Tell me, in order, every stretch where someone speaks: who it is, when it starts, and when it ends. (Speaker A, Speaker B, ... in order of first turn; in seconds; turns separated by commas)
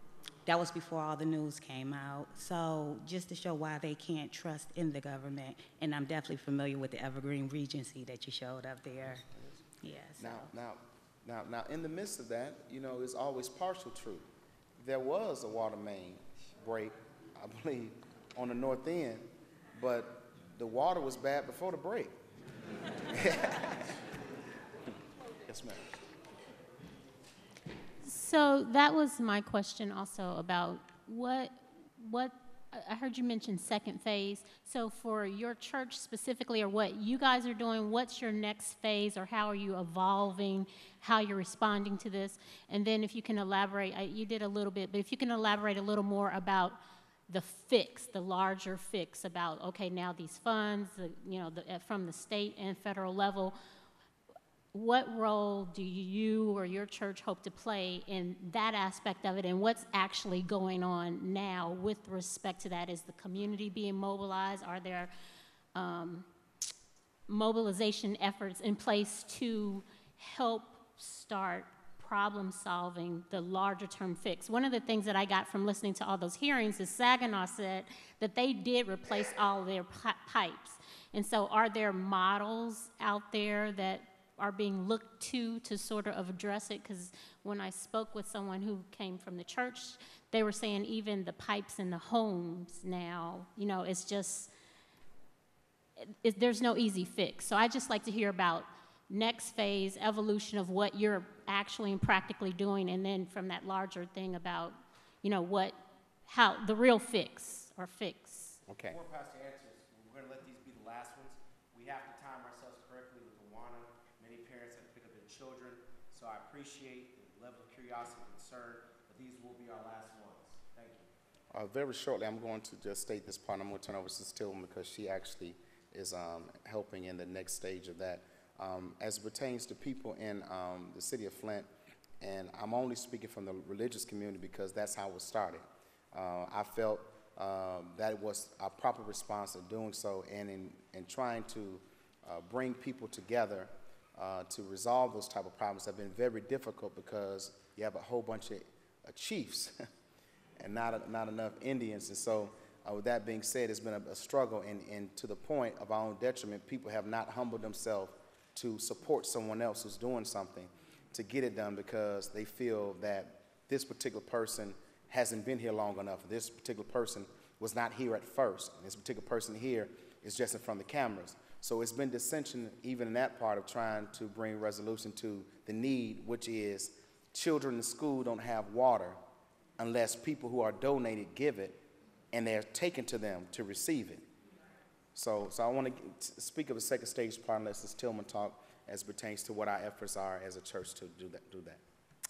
Speaker A: 0.5-9.2, Speaker B: 9.1-9.6, Speaker A: 9.8-10.5, Speaker B: 10.2-14.3, Speaker B: 14.8-22.1, Speaker B: 23.1-23.9, Speaker B: 25.5-25.9, Speaker C: 28.0-53.5, Speaker C: 54.7-65.1, Speaker C: 65.7-66.3, Speaker C: 67.3-94.5, Speaker C: 96.2-108.6, Speaker B: 108.7-109.0, Speaker D: 108.9-121.0, Speaker B: 121.5-131.7, Speaker B: 132.2-149.8, Speaker B: 150.6-179.2, Speaker B: 179.8-184.2, Speaker B: 185.1-191.8